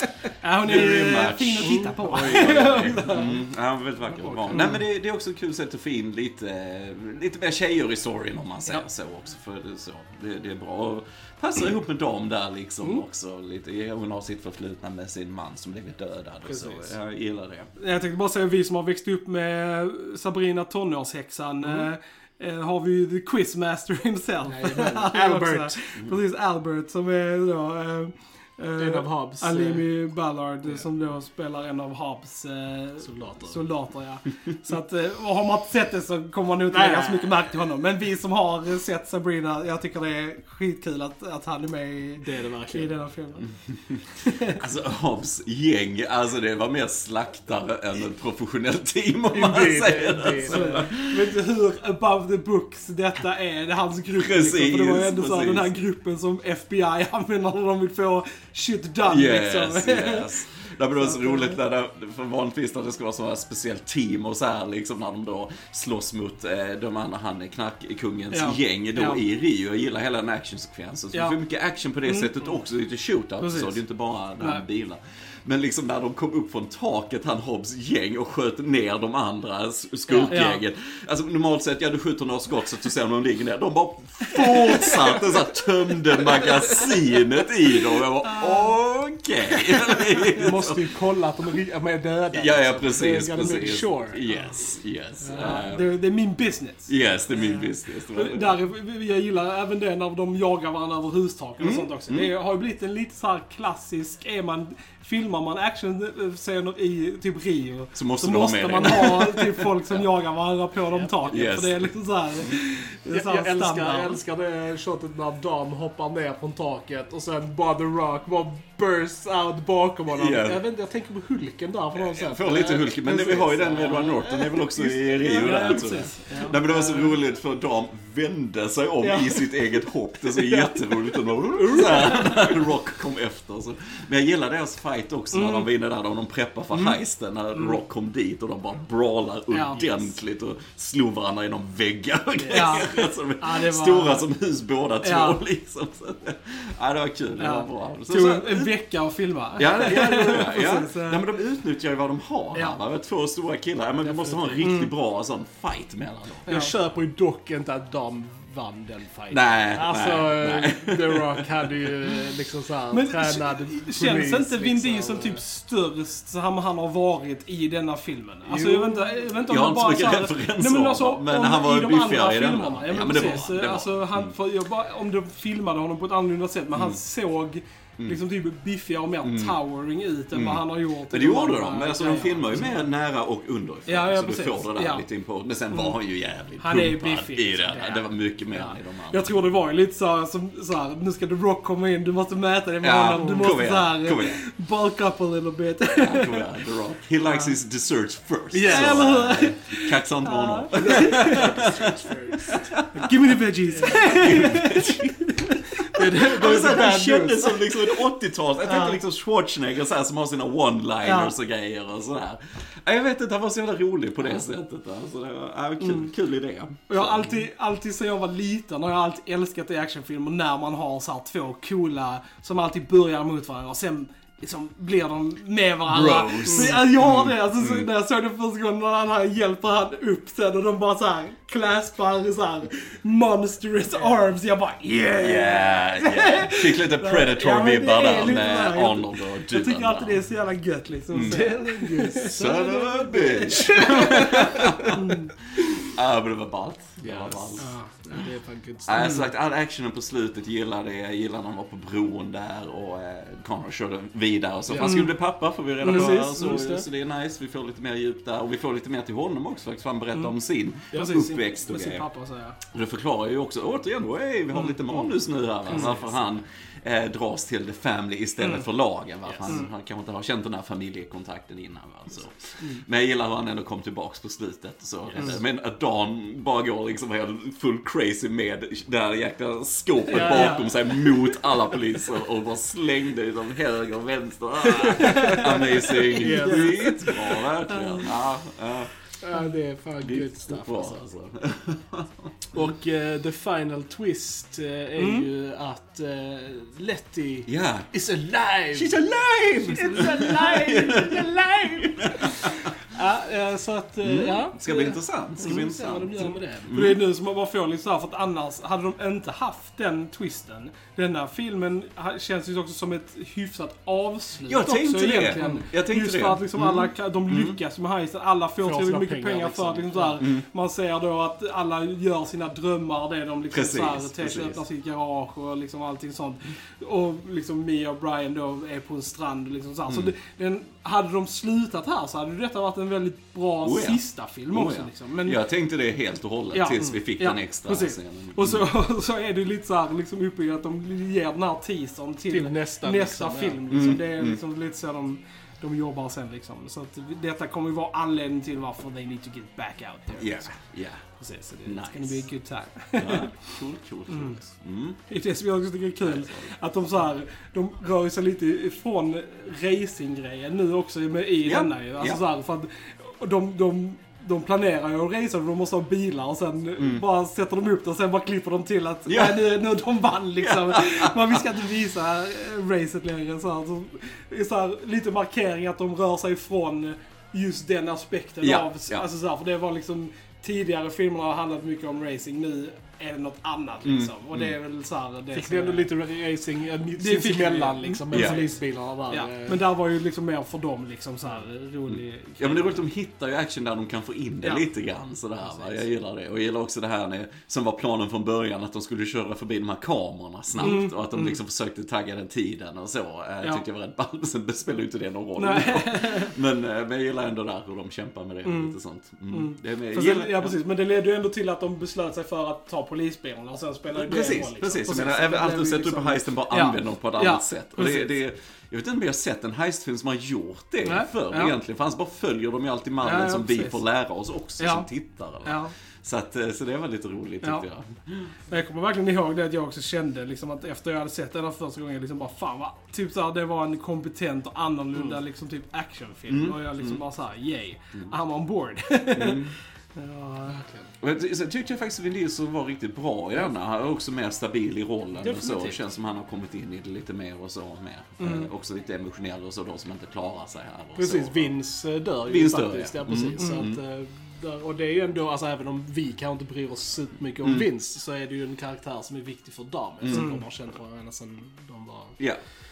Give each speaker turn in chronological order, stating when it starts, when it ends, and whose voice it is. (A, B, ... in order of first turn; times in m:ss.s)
0:00.4-0:03.3 A
0:00.6-0:17.7 B
0:01.6-0:03.2 C
0:04.3-0:04.8 A
0:16.5-0:16.9 C
0:17.8-0:43.5 A
0:24.5-0:25.8 C
0:28.8-0:29.9 C
0:33.0-0:33.6 C
0:36.7-0:37.5 C
0:42.2-0:42.9 C
0:43.7-0:44.0 B
0:44.2-0:44.6 A
0:44.6-0:51.3 B
0:49.3-0:50.8 C
0:50.5-1:00.3 A
0:54.2-0:55.8 B
0:59.1-1:30.9 B
1:01.0-1:01.6 A
1:08.3-1:09.2 A
1:12.1-1:12.6 A
1:13.4-1:13.8 A
1:20.1-1:20.4 C
1:20.3-1:20.6 A
1:28.2-1:28.7 A
1:30.2-1:34.2 C
1:32.3-1:35.9 B
1:34.3-1:34.6 A
1:35.2-1:35.6 C
1:35.3-1:54.2 A
1:36.9-1:38.6 B
1:41.6-1:42.3 B
1:48.0-1:50.1 B
1:51.3-1:51.9 B
1:53.1-2:05.8 C
2:00.1-2:00.6 B
2:02.0-2:28.7 B
2:05.2-2:07.1 A
2:09.0-2:09.5 A
2:10.3-2:12.4 A
2:15.3-2:15.7 A
2:19.5-2:20.2 A
2:22.4-2:23.0 C
2:22.5-2:24.3 A
2:25.0-2:25.4 A
2:27.4-2:31.2 A
2:29.6-2:36.5 B
2:29.8-2:30.5 C
2:34.0-2:34.7 C
2:34.6-2:34.9 A
2:36.5-2:36.7 A
2:36.5-2:45.4 C
2:39.3-2:41.5 B
2:42.9-3:02.8 A
2:48.5-2:49.2 C
2:49.5-2:54.3 B
2:56.7-2:57.0 B
2:59.2-2:59.6 B
3:00.3-3:09.4 B
3:03.9-3:05.0 A
3:05.7-3:06.0 A
3:06.6-3:16.5 A
3:12.8-3:14.4 B
3:16.0-3:21.8 B
3:17.3-3:17.6 A
3:18.5-3:19.1 C
3:18.6-3:21.5 A
3:20.7-3:22.8 C
3:22.4-3:23.4 B
3:22.9-3:25.6 A
3:23.7-3:24.6 C
3:24.1-3:25.2 B
3:25.9-3:27.6 C
3:26.1-3:37.4 B
3:28.6-3:29.0 A
3:31.0-3:31.3 A
3:35.8-3:36.1 A
3:36.9-4:04.2 A
3:45.9-3:47.9 B
3:55.2-4:00.2 B
4:01.1-4:01.4 B
4:01.2-4:05.0 C
4:02.2-4:08.2 B
4:04.9-4:05.3 A
4:07.0-4:09.2 C
4:08.9-4:22.1 B
4:09.0-4:09.3 A
4:14.7-4:15.0 C
4:14.8-4:15.1 A
4:15.8-4:16.7 A
4:15.8-4:16.8 C
4:20.9-4:22.6 A
4:22.7-4:48.9 B
4:25.7-4:26.0 C
4:25.7-4:26.0 A
4:28.4-4:28.7 A
4:29.2-4:29.6 C
4:35.1-4:35.4 C
4:40.1-4:40.7 C
4:40.1-4:40.7 A
4:44.8-4:47.4 C
4:45.2-4:45.5 A
4:46.3-4:47.0 A
4:47.7-4:48.1 A
4:49.2-4:51.1 C
4:50.0-4:52.3 B
4:52.5-4:59.0 C
4:55.0-4:55.3 A
4:57.5-4:57.9 B
4:58.7-5:02.7 B
4:59.6-5:06.7 C
5:03.0-5:04.3 A
5:04.0-5:07.0 B
5:06.7-5:35.4 A
5:14.5-5:17.6 B
5:15.3-5:15.6 C
5:18.6-5:20.2 C
5:20.2-5:20.4 B
5:23.5-5:24.6 B
5:29.9-5:30.1 B
5:33.6-5:38.7 B
5:36.5-5:50.5 A
5:42.3-5:43.6 C
5:43.7-5:44.4 B
5:50.2-5:51.0 B
5:51.2-5:54.4 A
5:51.6-5:52.2 B
5:53.0-5:55.0 B
5:55.1-6:25.9 A
5:56.0-5:56.6 B
6:01.4-6:02.2 B
6:06.8-6:07.1 B
6:09.1-6:09.6 B
6:10.4-6:11.5 B
6:18.4-6:19.1 B
6:23.8-6:24.6 B
6:25.3-6:29.6 C
6:27.0-6:28.6 A
6:28.1-6:28.4 B
6:29.1-6:32.8 A
6:31.9-6:50.6 B
6:40.6-6:41.4 A
6:45.4-6:46.4 A
6:48.4-6:48.8 A
6:49.3-6:58.1 A
6:53.9-7:08.4 B
7:00.8-7:01.6 A
7:03.0-7:03.8 A
7:04.6-7:04.9 A
7:05.4-7:05.7 A
7:08.5-7:20.6 A
7:16.3-7:17.0 B
7:19.1-7:19.6 B
7:20.4-7:20.9 C
7:21.0-7:31.5 B
7:25.2-7:25.8 C
7:28.2-7:28.5 A
7:31.0-7:42.2 C
7:32.3-7:33.8 B
7:33.4-7:33.6 A
7:37.4-7:37.7 B
7:40.0-7:40.3 B
7:40.1-7:40.4 A